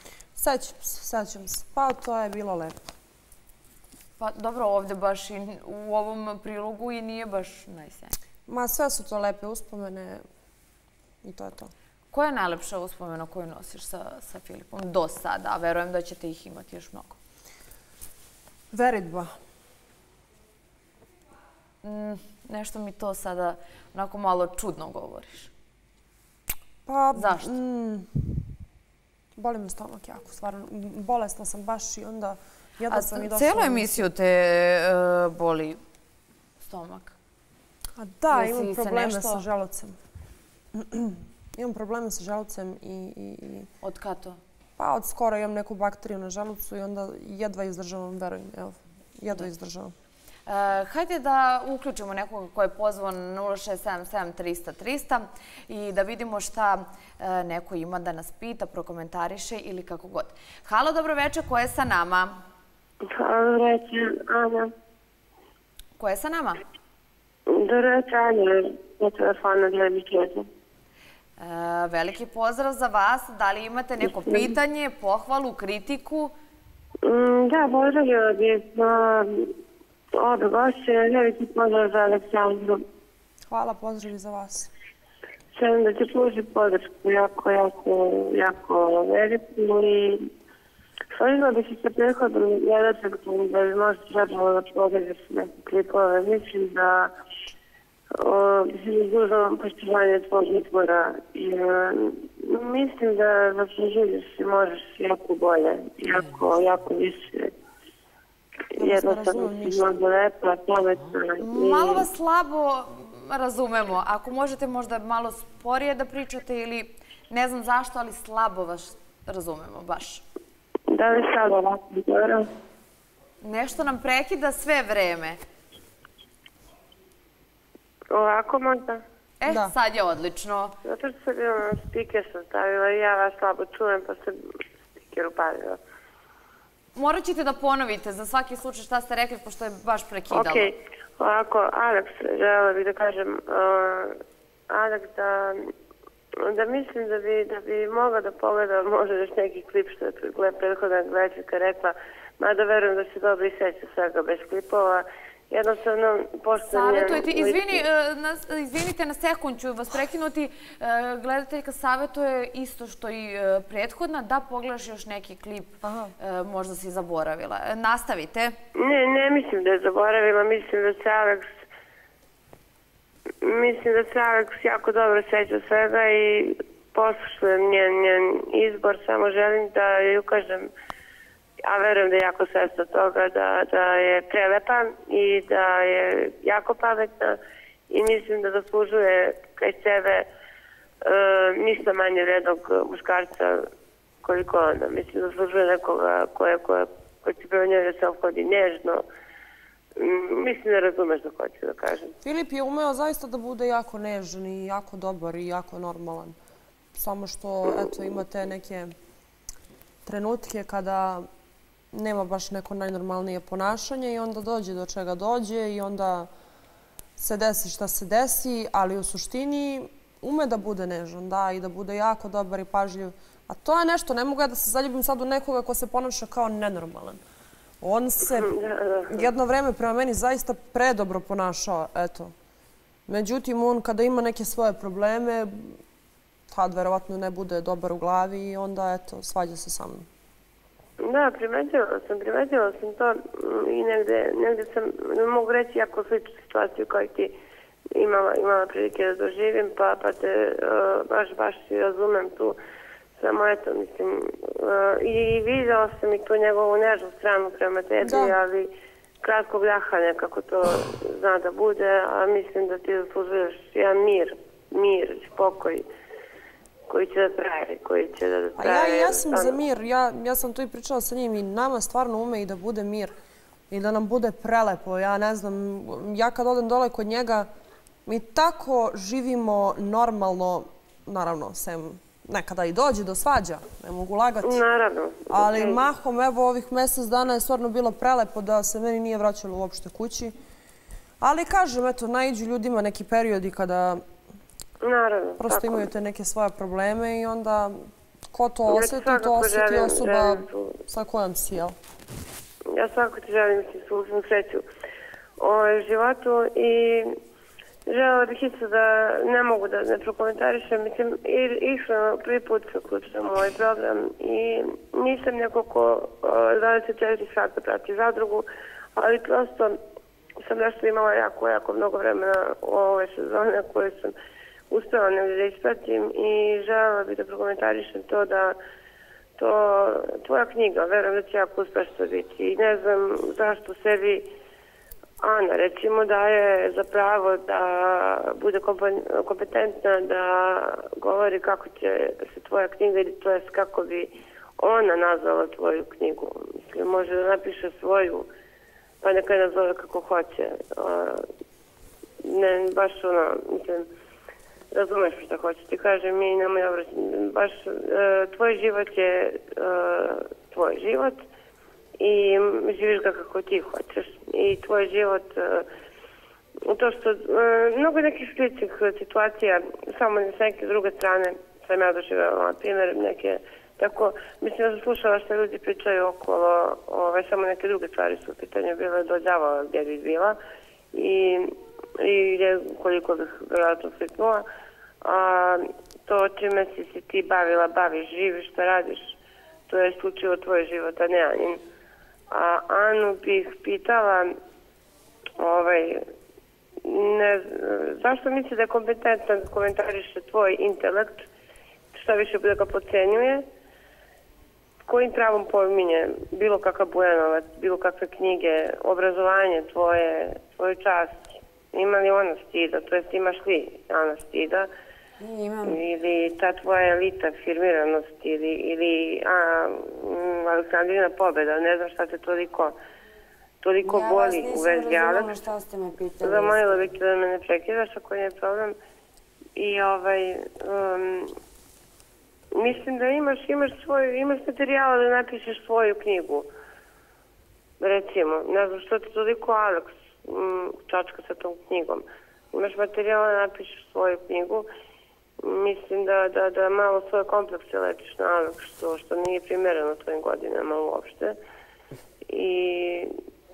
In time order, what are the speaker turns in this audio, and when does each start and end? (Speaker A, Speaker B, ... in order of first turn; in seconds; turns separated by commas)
Speaker A: 0.3-2.8, Speaker B: 4.2-8.1, Speaker A: 8.5-10.2, Speaker A: 11.2-11.7, Speaker B: 12.1-17.2, Speaker A: 18.7-19.3, Speaker B: 21.8-25.5, Speaker A: 26.9-28.4, Speaker B: 27.1-27.5, Speaker A: 29.4-34.0, Speaker B: 32.9-35.8, Speaker B: 36.6-37.1, Speaker A: 38.0-40.0, Speaker B: 38.3-39.4, Speaker A: 40.7-43.7, Speaker B: 43.8-44.4, Speaker A: 44.8-49.9, Speaker B: 50.5-62.4, Speaker C: 63.1-64.7, Speaker B: 66.0-66.6, Speaker C: 67.5-70.5, Speaker B: 71.4-76.3, Speaker C: 74.1-74.5, Speaker C: 77.0-79.5, Speaker C: 80.2-82.8, Speaker A: 83.5-84.7, Speaker C: 85.5-90.2, Speaker C: 91.1-97.1, Speaker C: 98.2-107.5, Speaker A: 108.8-109.9, Speaker C: 108.8-112.1, Speaker B: 111.4-120.2, Speaker C: 120.9-122.5, Speaker B: 123.4-125.4, Speaker C: 128.1-129.0, Speaker B: 129.4-130.7, Speaker A: 129.4-129.7, Speaker C: 130.8-135.8, Speaker B: 136.9-140.7, Speaker C: 140.3-144.2, Speaker C: 144.7-145.6, Speaker C: 146.4-157.8, Speaker B: 156.6-168.6, Speaker A: 165.8-166.1, Speaker C: 168.7-171.6, Speaker C: 173.4-180.7, Speaker C: 181.6-187.4, Speaker C: 187.9-190.3, Speaker C: 191.0-193.6, Speaker C: 194.2-199.0, Speaker C: 200.0-202.1, Speaker A: 202.2-206.3, Speaker A: 206.9-208.9, Speaker A: 210.0-211.2, Speaker A: 211.9-216.3, Speaker A: 217.2-227.2, Speaker A: 227.8-228.5, Speaker C: 228.2-229.3, Speaker A: 229.1-232.3, Speaker A: 233.1-235.8, Speaker A: 236.5-240.1, Speaker C: 241.0-247.3, Speaker C: 247.9-252.6, Speaker C: 253.2-258.7, Speaker A: 258.0-258.4, Speaker C: 259.2-265.8, Speaker C: 266.9-269.6, Speaker A: 268.6-273.1, Speaker A: 273.7-277.5, Speaker A: 278.0-284.6, Speaker C: 284.4-285.8, Speaker A: 285.3-290.3, Speaker A: 291.2-294.0, Speaker C: 294.8-295.9, Speaker A: 295.4-297.8, Speaker A: 298.3-301.8, Speaker C: 298.7-300.8, Speaker C: 302.7-304.6, Speaker C: 305.4-307.1, Speaker C: 307.9-319.8, Speaker C: 320.4-324.1, Speaker C: 324.7-328.6, Speaker C: 329.4-334.3, Speaker C: 335.2-348.3, Speaker C: 349.0-351.2, Speaker C: 352.2-353.9, Speaker C: 354.7-361.2, Speaker C: 362.0-365.6, Speaker C: 366.7-380.4, Speaker C: 380.9-384.4, Speaker C: 385.0-389.2, Speaker C: 389.7-391.6, Speaker C: 392.3-394.3, Speaker C: 395.4-396.0, Speaker C: 396.8-401.2, Speaker C: 401.9-403.4, Speaker C: 404.9-414.7, Speaker D: 415.2-415.8, Speaker C: 415.6-422.7, Speaker C: 423.6-425.4, Speaker D: 423.8-426.9, Speaker C: 426.2-428.8, Speaker C: 429.6-431.3, Speaker C: 432.5-436.5, Speaker C: 437.8-444.7, Speaker C: 445.4-451.4, Speaker C: 452.3-453.1